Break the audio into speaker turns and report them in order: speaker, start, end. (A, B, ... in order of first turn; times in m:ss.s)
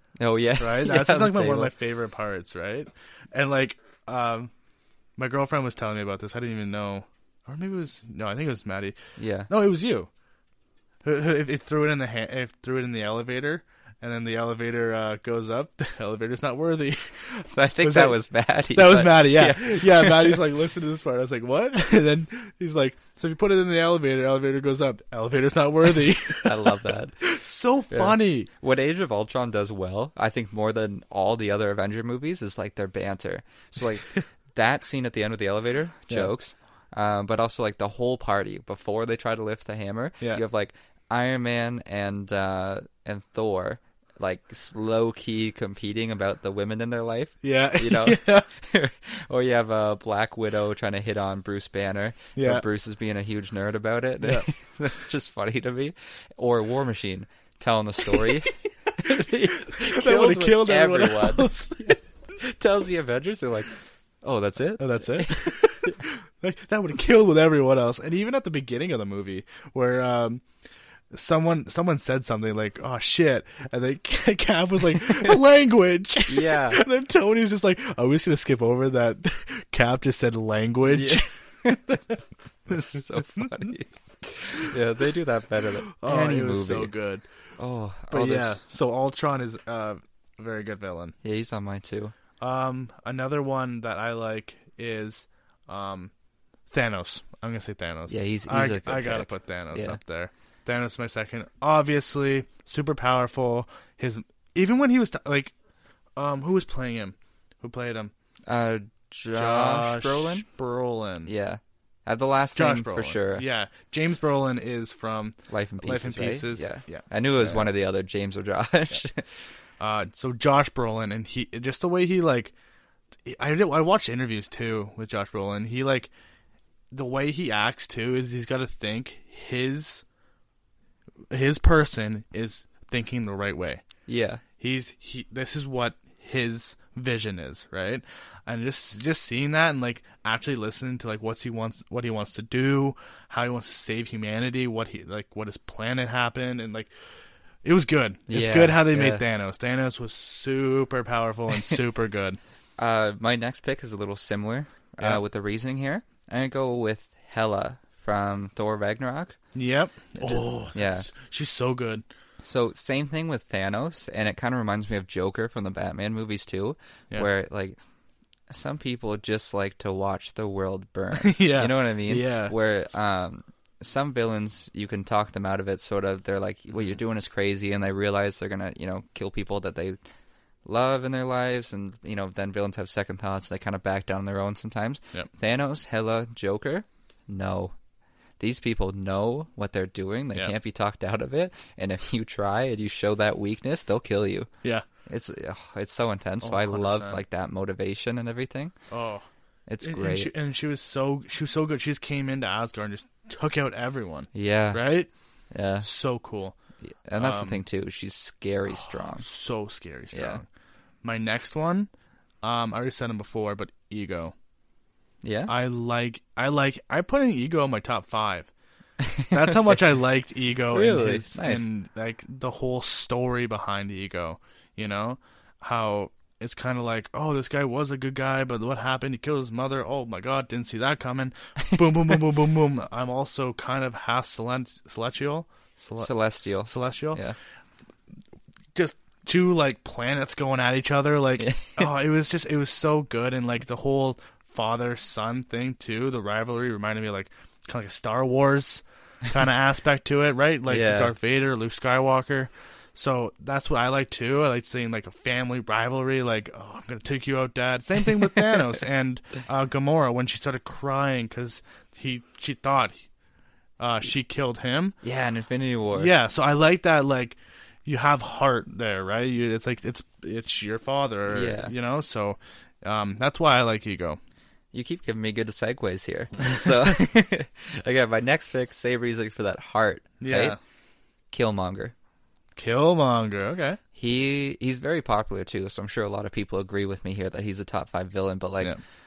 0:00.2-0:01.7 A
0:00.6-0:04.5 B
0:05.2-0:08.9 B
0:09.2-0:09.5 A
0:09.5-0:10.1 B
0:11.0-0:18.2 B
0:17.5-0:20.4 A
0:18.7-0:28.5 B
0:26.4-0:27.2 A
0:27.9-1:03.7 A
0:47.4-0:48.5 B
0:52.4-0:52.6 B
0:54.2-0:54.5 B
0:59.6-1:02.0 B
1:04.2-1:06.0 A
1:04.8-1:10.4 B
1:11.1-1:22.1 B
1:16.3-1:16.8 A
1:20.9-1:22.0 A
1:22.7-1:26.9 A
1:22.7-1:23.5 B
1:26.0-1:27.2 B
1:27.6-1:28.6 A
1:28.1-1:31.1 B
1:31.2-1:32.1 A
1:32.4-1:36.1 B
1:36.7-1:45.5 B
1:38.1-1:40.0 A
1:46.2-1:48.1 B
1:48.4-1:50.4 A
1:49.3-1:51.3 B
1:51.2-1:53.5 A
1:52.5-1:57.6 B
1:55.5-1:59.3 A
1:59.8-2:02.5 B
2:03.2-2:06.1 B
2:06.9-2:10.0 B
2:11.3-2:13.8 B
2:14.1-2:14.4 A
2:14.6-2:26.9 B
2:27.6-2:32.4 B
2:28.3-2:29.2 A
2:32.8-2:39.4 A
2:39.5-2:42.0 B
2:40.1-2:41.1 A
2:42.4-2:47.8 A
2:48.5-3:00.0 A
2:51.1-2:52.5 B
3:00.6-3:07.7 A
3:08.4-3:14.5 A
3:15.1-3:18.7 A
3:16.4-3:17.2 B
3:18.9-3:19.2 B
3:19.7-3:20.3 A
3:19.8-3:25.1 B
3:24.3-3:24.8 A
3:25.5-3:25.9 A
3:25.8-3:26.6 B
3:26.8-3:29.3 A
3:27.2-3:27.6 B
3:28.9-3:30.4 B
3:30.1-3:30.4 A
3:31.0-3:31.9 B
3:32.4-3:34.3 B
3:35.2-3:35.5 A
3:35.5-3:38.5 B
3:39.0-3:39.8 A
3:39.3-3:56.1 B
3:40.7-3:41.7 A
3:55.8-3:57.4 A
3:56.6-3:57.2 B
3:58.7-4:23.0 B
4:01.4-4:01.9 A
4:10.7-4:11.1 A
4:23.8-4:25.0 B
4:25.0-4:26.1 A
4:25.9-4:34.2 B
4:31.3-4:31.7 A
4:34.7-4:40.6 A
4:40.2-4:40.6 B
4:41.3-4:41.9 A
4:42.6-4:43.8 B
4:44.0-4:48.7 A